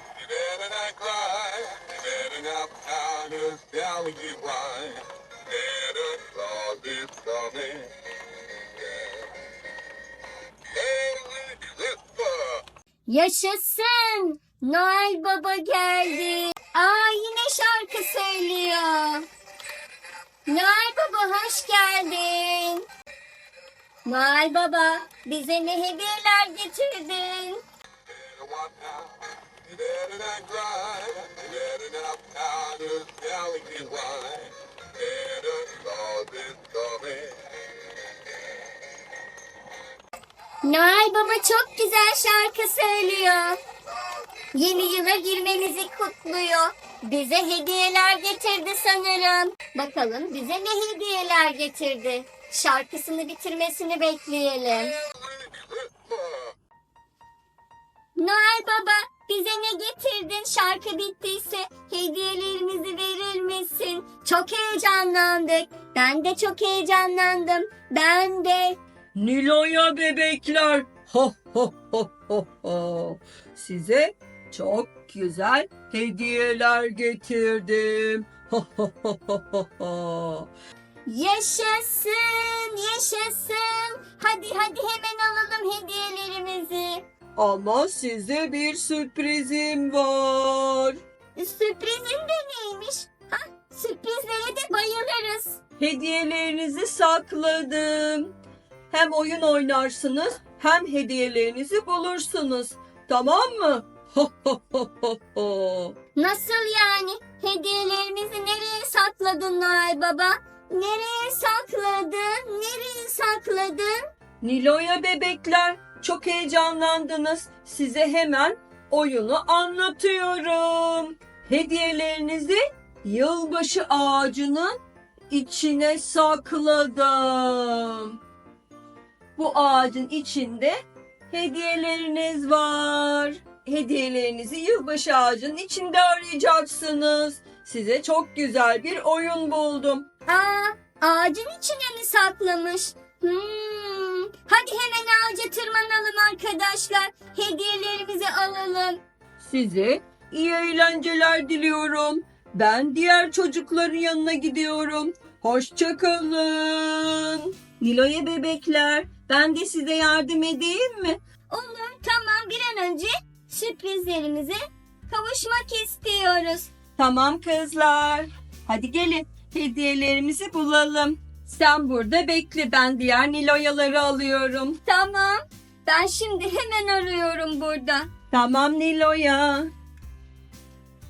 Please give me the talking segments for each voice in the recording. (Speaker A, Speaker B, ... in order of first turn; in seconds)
Speaker A: 0.2-7.9, 10.8-12.6, 28.3-29.1, 29.7-37.4
Speaker B: 13.1-19.3, 20.5-22.9, 24.1-27.6, 40.6-43.6, 44.5-55.0, 58.2-68.8, 81.1-87.0, 91.4-95.6, 106.2-114.0, 140.2-149.0, 161.5-164.6, 165.1-166.7, 174.9-178.1
Speaker C: 69.2-80.5, 87.4-91.0, 95.8-98.3, 98.9-106.0, 114.4-124.8, 125.3-128.2, 129.4-140.1, 149.4-161.2, 167.0-174.8, 178.3-179.7